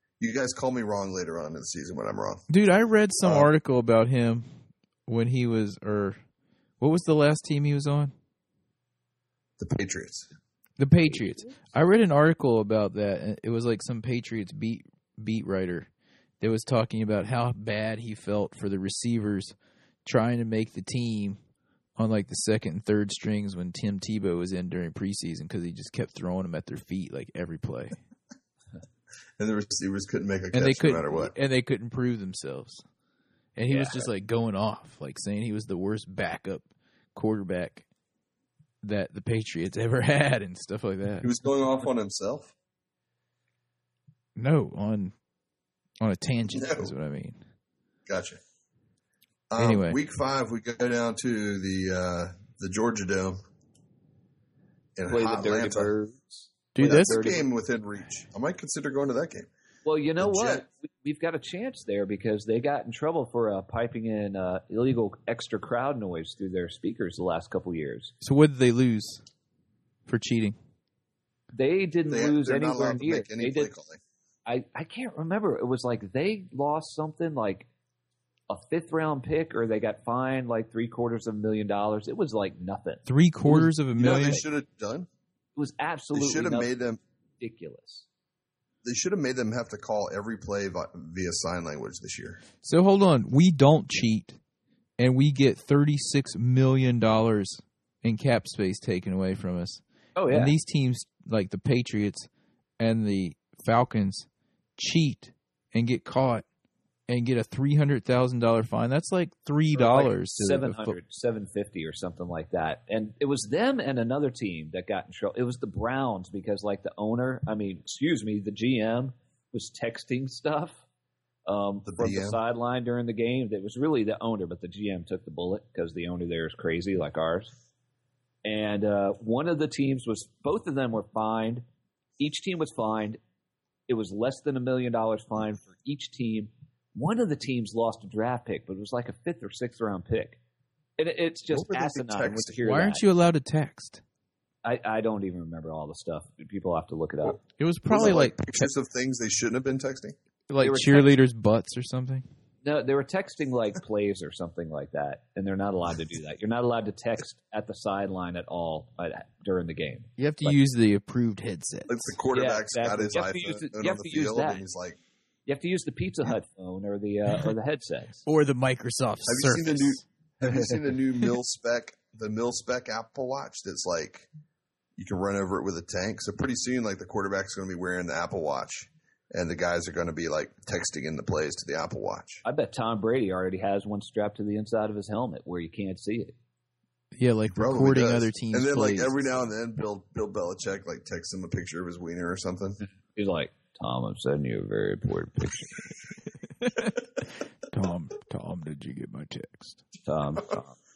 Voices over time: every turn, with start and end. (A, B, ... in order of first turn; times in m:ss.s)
0:00.2-0:02.4 A
0:02.5-0:04.5 B
0:03.2-0:03.5 A
0:05.1-0:06.2 B
0:06.8-0:08.1 B
0:09.6-0:10.3 A
0:10.8-0:15.9 B
0:16.4-0:19.5 B
0:20.0-0:21.4 B
0:22.0-0:28.0 B
0:29.4-0:31.3 A
0:30.5-0:32.8 B
0:33.6-0:37.8 B
0:33.7-0:34.1 C
0:38.8-0:41.3 B
0:41.2-0:42.5 A
0:44.4-0:45.1 B
0:46.0-0:47.4 B
0:46.5-0:46.9 A
0:48.1-0:48.4 A
0:49.5-0:53.4 A
0:49.6-0:50.0 B
0:55.0-0:55.9 A
0:55.1-0:57.4 C
0:56.8-0:57.3 B
0:56.8-0:59.5 A
0:59.8-1:08.1 C
1:00.2-1:00.6 A
1:08.2-1:09.2 B
1:10.1-1:10.6 B
1:11.5-1:13.7 C
1:12.1-1:14.0 A
1:14.5-1:17.7 C
1:18.5-1:23.0 C
1:23.1-1:24.4 B
1:23.5-1:25.1 A
1:24.0-1:24.4 C
1:25.6-1:26.7 C
1:26.1-1:27.0 A
1:27.4-1:28.1 C
1:28.8-1:32.4 A
1:32.6-1:34.4 B
1:35.0-1:42.3 B
1:40.2-1:40.5 C
1:42.8-1:46.4 B
1:47.1-1:51.0 B
1:49.7-2:00.8 C
2:01.5-2:07.5 C
2:01.8-2:02.4 A
2:08.4-2:11.6 C
2:12.2-2:13.2 C
2:13.9-2:20.4 C
2:21.0-2:23.0 C
2:21.5-2:22.6 A
2:22.6-2:24.0 B
2:24.6-2:27.4 C
2:27.6-2:28.7 B
2:27.9-2:30.2 A
2:30.5-2:32.3 B
2:30.6-2:31.2 C
2:32.6-2:40.6 C
2:40.2-2:42.1 B
2:41.9-2:45.0 A
2:42.3-2:44.6 C
2:45.5-2:48.2 C
2:48.3-2:50.0 B
2:49.3-2:54.3 A
2:55.0-3:02.4 A
3:02.4-3:06.4 C
3:07.2-3:09.1 B
3:07.5-3:12.8 A
3:13.1-3:15.8 C
3:16.6-3:16.9 B
3:17.7-3:19.8 B
3:20.1-3:20.8 C